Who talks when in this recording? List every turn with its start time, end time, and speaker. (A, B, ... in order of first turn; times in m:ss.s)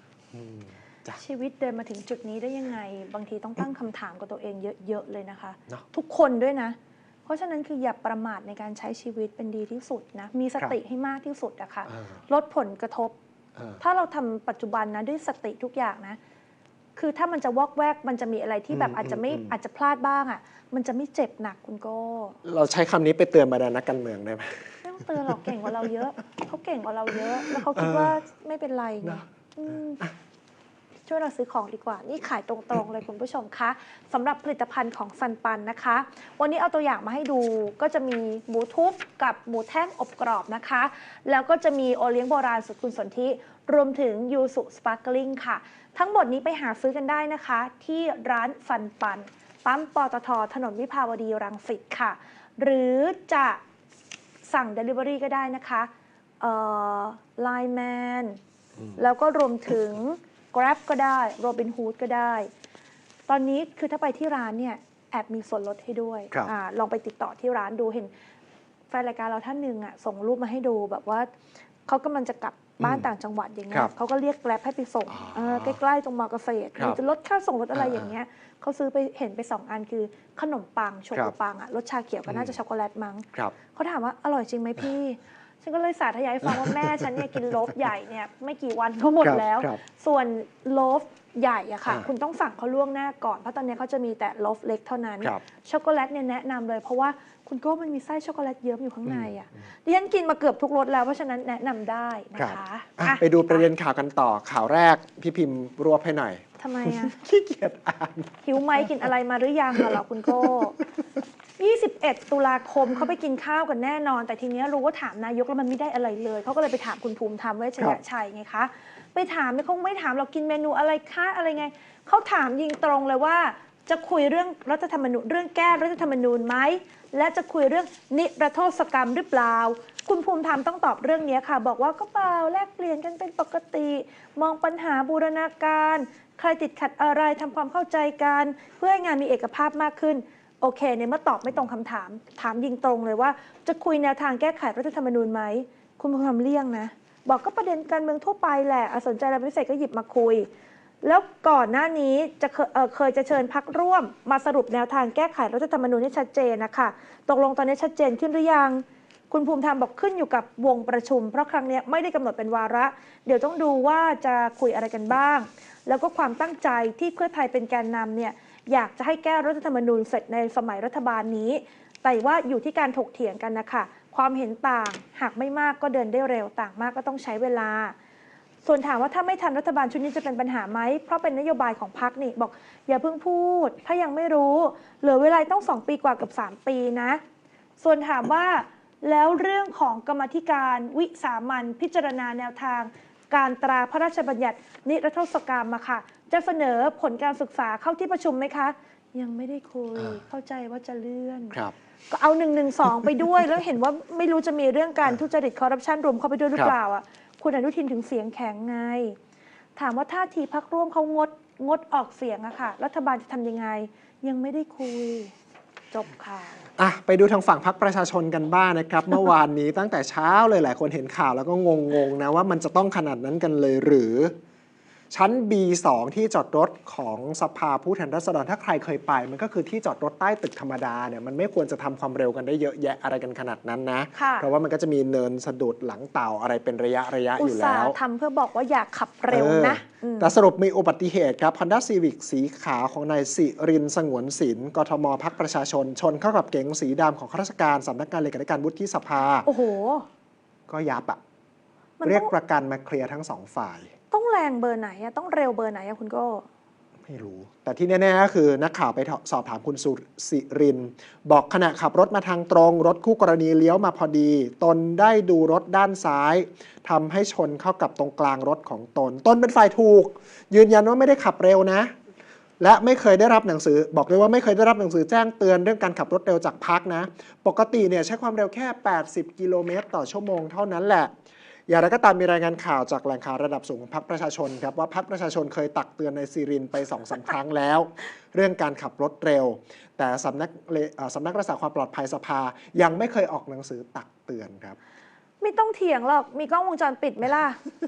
0:00.3-0:01.2 A
0:01.1-0:13.2 B
0:11.9-0:12.2 A
0:13.8-0:16.2 B
0:17.0-0:22.4 B
0:18.7-0:19.5 A
0:22.4-0:25.7 A
0:24.8-0:30.0 B
0:27.5-0:28.2 A
0:31.1-0:53.6 B
0:54.4-0:58.4 B
0:58.9-1:02.5 B
1:03.3-1:08.1 B
1:08.9-1:11.3 B
1:11.8-1:43.7 B
1:12.8-1:13.1 A
1:15.1-1:15.8 A
1:17.7-1:18.1 A
1:22.2-1:22.5 A
1:26.4-1:27.4 A
1:29.2-1:29.8 A
1:39.0-1:39.3 A
1:42.4-1:48.9 A
1:46.6-1:47.2 B
1:48.4-1:50.8 B
1:49.7-1:50.6 A
1:51.6-2:30.5 B
2:31.0-2:57.9 B
2:58.6-3:07.2 B
3:07.8-3:29.2 B
3:29.8-3:35.3 B
3:35.9-3:36.6 B
3:36.8-3:44.3 A
3:45.1-3:58.0 A
3:54.1-3:54.5 B
3:57.4-4:00.3 B
3:59.3-4:09.5 A
4:09.4-4:10.1 B
4:10.7-4:11.2 A
4:12.0-4:12.3 B
4:12.0-4:13.9 A
4:14.1-4:16.4 B
4:17.0-4:31.9 A
4:32.6-4:41.1 A
4:41.7-4:54.8 A
4:55.4-4:57.6 B